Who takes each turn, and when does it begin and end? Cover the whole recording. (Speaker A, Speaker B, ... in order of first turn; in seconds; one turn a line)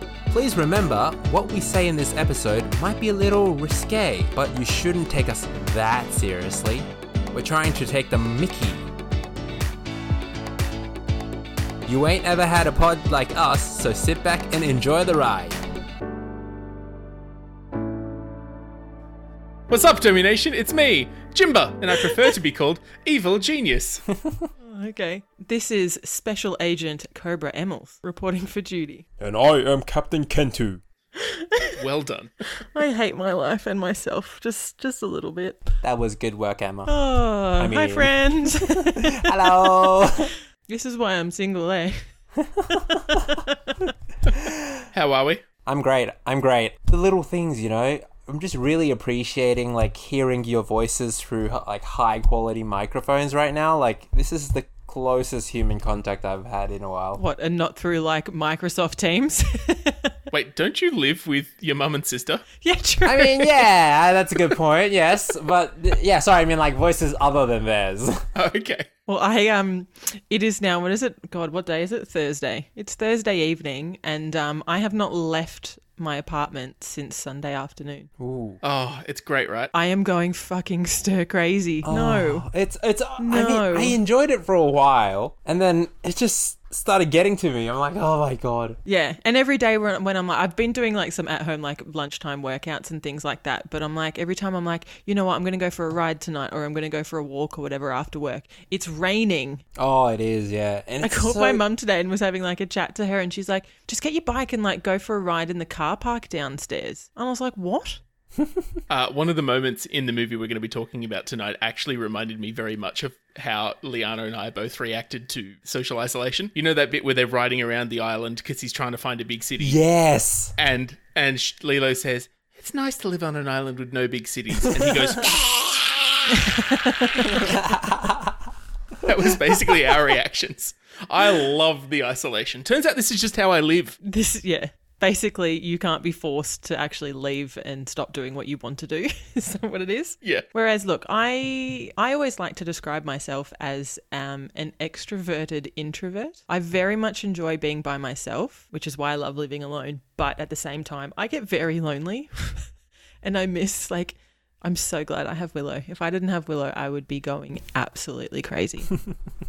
Speaker A: 0.3-8.9
Speaker A: 11.8-15.6
Speaker B: 19.7-24.0
Speaker A: 24.1-24.5
Speaker C: 24.6-29.1
Speaker A: 29.2-30.8
Speaker C: 31.2-31.8
Speaker B: 31.8-32.3
Speaker C: 32.7-35.7
Speaker A: 35.8-37.0
Speaker C: 36.9-42.0
Speaker A: 37.5-40.3
Speaker A: 42.4-43.4
Speaker C: 42.7-43.9
Speaker A: 44.3-44.8
Speaker B: 44.9-45.4
Speaker A: 45.6-57.2
Speaker C: 57.1-60.1
Speaker B: 60.3-62.4
Speaker C: 62.6-63.7
Speaker A: 63.0-68.3
Speaker B: 68.3-68.9
Speaker C: 69.1-78.1
Speaker A: 78.2-78.6
Speaker B: 78.6-79.7
Speaker C: 79.7-82.5
Speaker A: 81.8-88.8
Speaker C: 83.2-84.0
Speaker C: 88.8-99.6
Speaker A: 99.8-101.6
Speaker C: 101.0-108.0
Speaker A: 108.4-108.7
Speaker B: 108.9-119.8
Speaker A: 119.6-120.5
Speaker B: 120.6-125.5
Speaker A: 124.7-125.9
Speaker C: 126.3-127.6
Speaker A: 127.2-128.4
Speaker B: 129.0-134.0
Speaker A: 129.1-130.2
Speaker C: 134.0-152.7
Speaker C: 153.2-158.9